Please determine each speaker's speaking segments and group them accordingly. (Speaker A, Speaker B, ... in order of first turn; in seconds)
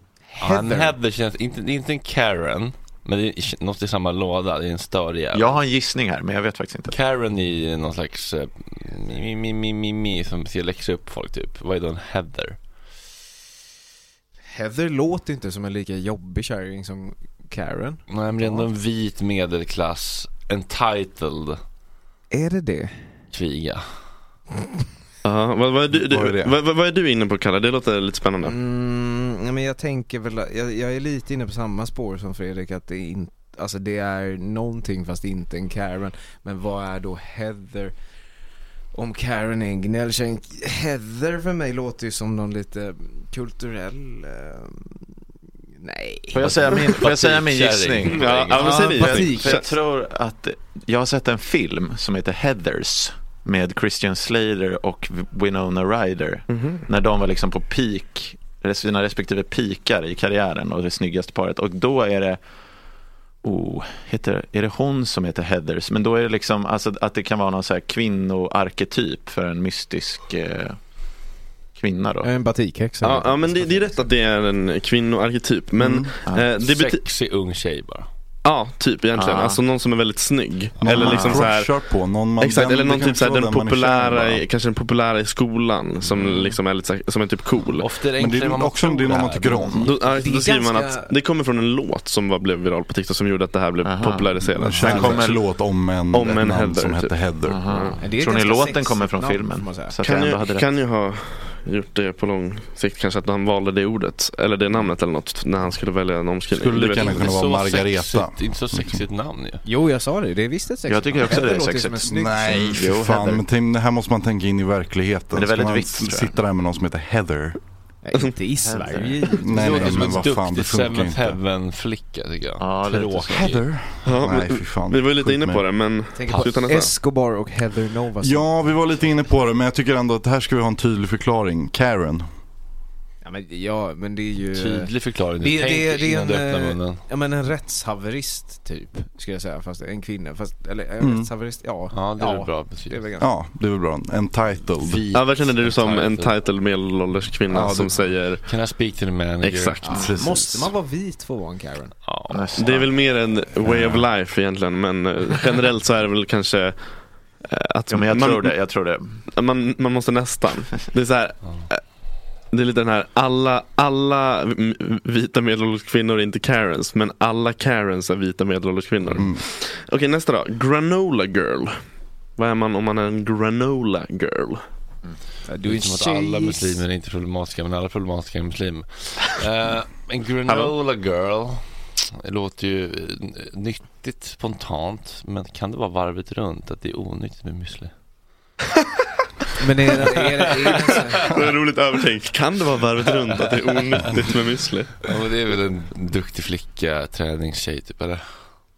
Speaker A: 0.3-1.0, 14.5-18.7, 22.3-23.1, 28.4-38.0, 38.9-45.2, 45.8-46.9, 48.5-49.6, 72.2-74.1, 90.1-91.1, 98.0-100.0, 109.6-112.7, 118.0-120.2, 126.1-129.1, 133.2-143.4, 149.8-152.0, 175.4-176.8, 189.6-191.2
Speaker B: 0.4-5.6, 6.9-12.7, 18.1-21.6, 23.3-24.3, 46.4-48.5, 76.5-78.1, 87.8-89.8, 107.0-109.6, 119.6-123.7, 134.5-137.0, 141.9-143.1, 144.8-146.5, 147.5-150.6, 152.1-152.4, 175.6-188.1, 195.0-198.5
Speaker C: 5.3-7.0, 46.3-71.1, 71.7-72.3, 79.1-79.6, 81.0-81.5, 86.1-86.5, 93.8-95.4, 97.4-100.7, 110.9-113.5, 115.3-116.4, 118.6-119.6, 122.6-123.7, 152.3-153.0, 157.9-159.2
Speaker D: 25.2-28.6, 48.1-49.7, 56.5-56.8, 73.0-77.1, 78.4-88.0, 89.8-98.0, 100.0-107.2, 124.0-127.0, 145.1-148.7, 149.4-150.1, 152.6-174.7, 180.5-180.7, 191.3-195.0
Speaker E: 25.9-26.6, 75.8-76.1, 80.8-84.4, 88.1-90.0, 94.5-97.7, 106.5-109.1, 112.0-117.9, 119.4-121.4, 123.3-126.0, 128.2-132.3, 141.0-141.3, 143.2-145.1, 147.5-147.9, 149.9-150.6, 169.2-169.4